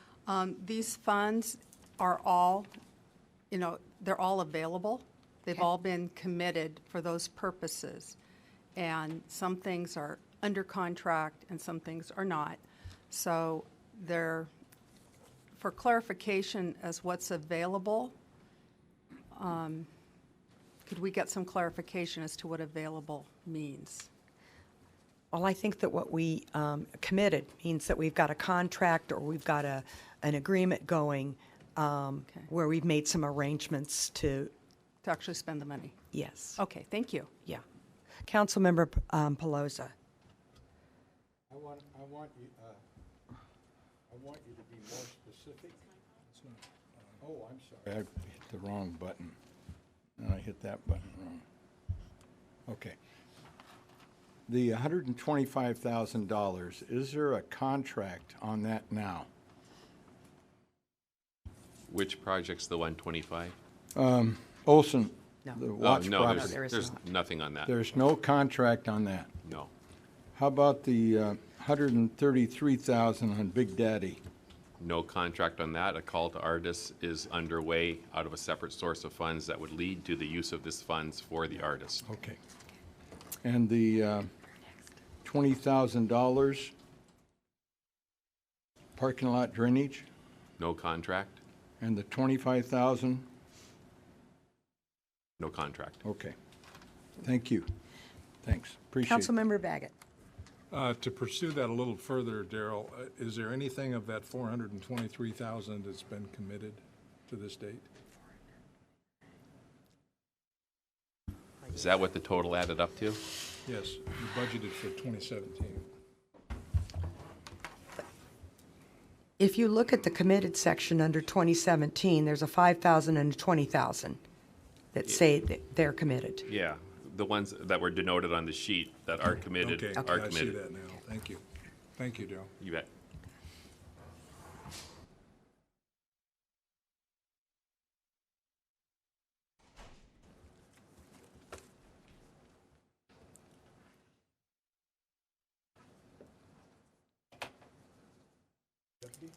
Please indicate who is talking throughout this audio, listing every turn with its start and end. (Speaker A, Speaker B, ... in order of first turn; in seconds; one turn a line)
Speaker A: 0.2-2.7
Speaker A: 3.5-8.2
Speaker A: 8.8-14.5
Speaker A: 15.5-18.1
Speaker A: 19.3-19.9
Speaker A: 20.9-24.1
Speaker B: 25.3-34.5
Speaker A: 35.0-36.0
Speaker B: 36.1-36.6
Speaker A: 36.6-37.3
Speaker B: 38.2-39.9
Speaker C: 41.5-42.8
Speaker C: 44.1-45.8
Speaker D: 46.3-47.1
Speaker C: 47.2-49.4
Speaker C: 50.2-51.4
Speaker C: 52.7-53.0
Speaker C: 54.5-59.3
Speaker E: 61.9-63.5
Speaker C: 63.9-66.6
Speaker B: 65.4-67.0
Speaker E: 65.8-67.7
Speaker C: 67.6-69.3
Speaker E: 69.4-69.7
Speaker C: 70.3-74.2
Speaker E: 74.8-82.1
Speaker C: 82.0-82.4
Speaker C: 83.4-84.3
Speaker C: 85.2-86.7
Speaker C: 89.0-90.0
Speaker E: 90.6-91.4
Speaker C: 91.8-93.3
Speaker E: 95.4-96.0
Speaker C: 96.0-96.3
Speaker C: 97.2-97.7
Speaker C: 98.4-99.3
Speaker B: 99.0-99.9
Speaker D: 100.7-107.9
Speaker E: 111.7-113.2
Speaker D: 113.6-115.9
Speaker B: 119.4-124.2
Speaker B: 124.9-126.4
Speaker E: 126.5-130.6
Speaker D: 129.6-131.4
Speaker D: 131.9-132.5
Speaker E: 132.6-132.9